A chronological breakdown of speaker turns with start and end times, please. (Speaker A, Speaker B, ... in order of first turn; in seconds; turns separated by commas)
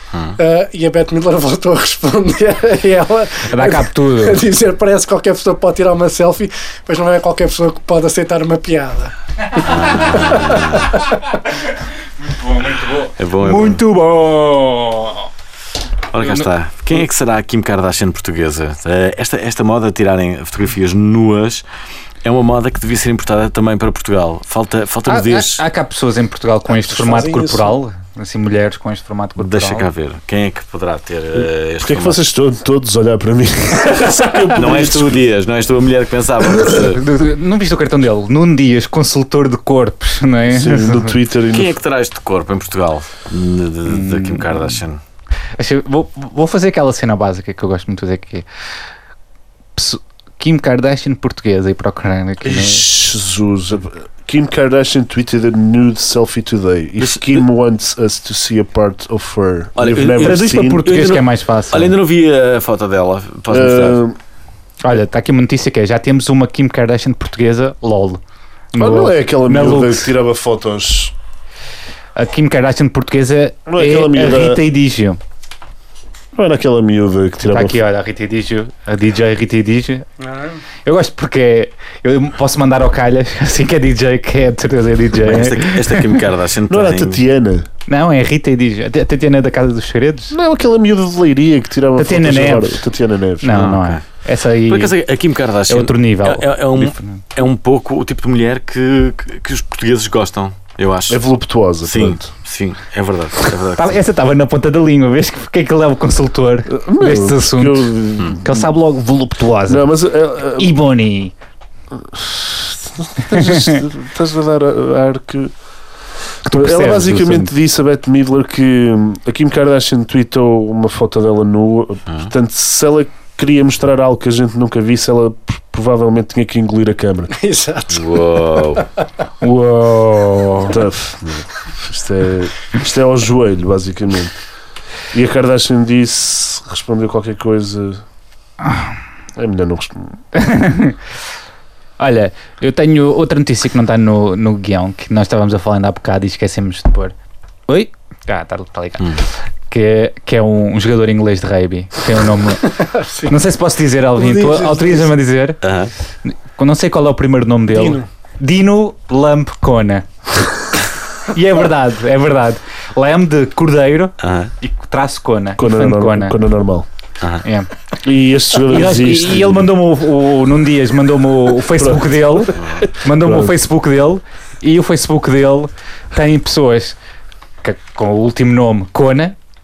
Speaker A: 0.3-10.8, Speaker B: 3.5-4.4, Speaker C: 9.6-11.0, Speaker B: 12.2-15.3, Speaker C: 13.2-13.8, Speaker C: 16.1-21.6, Speaker B: 16.2-16.5, Speaker C: 22.2-25.6, Speaker B: 25.1-29.9, Speaker A: 26.7-27.8, Speaker C: 29.4-32.2, Speaker D: 31.4-35.2, Speaker C: 34.5-37.0, Speaker B: 36.7-41.1, Speaker D: 40.5-41.8, Speaker C: 41.5-45.0, Speaker B: 43.9-44.7, Speaker B: 45.6-48.4, Speaker B: 49.8-52.8, Speaker D: 52.4-60.9, Speaker C: 57.0-57.4, Speaker C: 59.8-64.0, Speaker B: 60.2-61.9, Speaker D: 63.5-64.2, Speaker B: 64.8-68.2, Speaker B: 68.7-70.1, Speaker D: 68.8-71.1, Speaker B: 72.2-75.2, Speaker D: 73.7-74.6, Speaker D: 76.3-77.8, Speaker B: 77.4-80.1, Speaker A: 80.2-80.6, Speaker B: 80.8-86.2, Speaker C: 85.1-87.2, Speaker D: 86.7-87.7, Speaker B: 87.9-90.3, Speaker D: 90.3-93.6, Speaker B: 92.0-92.8, Speaker B: 93.4-94.9, Speaker C: 93.5-94.0, Speaker C: 94.7-101.2, Speaker B: 95.7-97.2, Speaker D: 101.1-102.3, Speaker C: 101.8-104.0, Speaker B: 103.7-109.8, Speaker D: 106.7-108.7, Speaker D: 109.7-110.7, Speaker B: 110.6-111.3, Speaker D: 111.9-115.5, Speaker B: 116.4-117.5, Speaker D: 116.5-127.3, Speaker A: 127.3-128.9, Speaker C: 127.9-128.8, Speaker B: 129.4-130.8, Speaker D: 130.6-134.3, Speaker D: 135.1-138.0, Speaker D: 139.3-140.2, Speaker B: 140.3-141.0, Speaker B: 142.0-147.1, Speaker B: 147.7-155.6, Speaker A: 152.7-153.4, Speaker A: 154.2-155.1, Speaker C: 155.6-155.9, Speaker B: 156.2-160.7, Speaker A: 157.7-158.1, Speaker B: 161.3-166.3, Speaker C: 164.2-164.5, Speaker D: 165.6-166.8, Speaker B: 167.4-167.7, Speaker D: 168.0-169.7, Speaker B: 168.7-176.9, Speaker D: 171.7-173.6, Speaker B: 177.6-179.3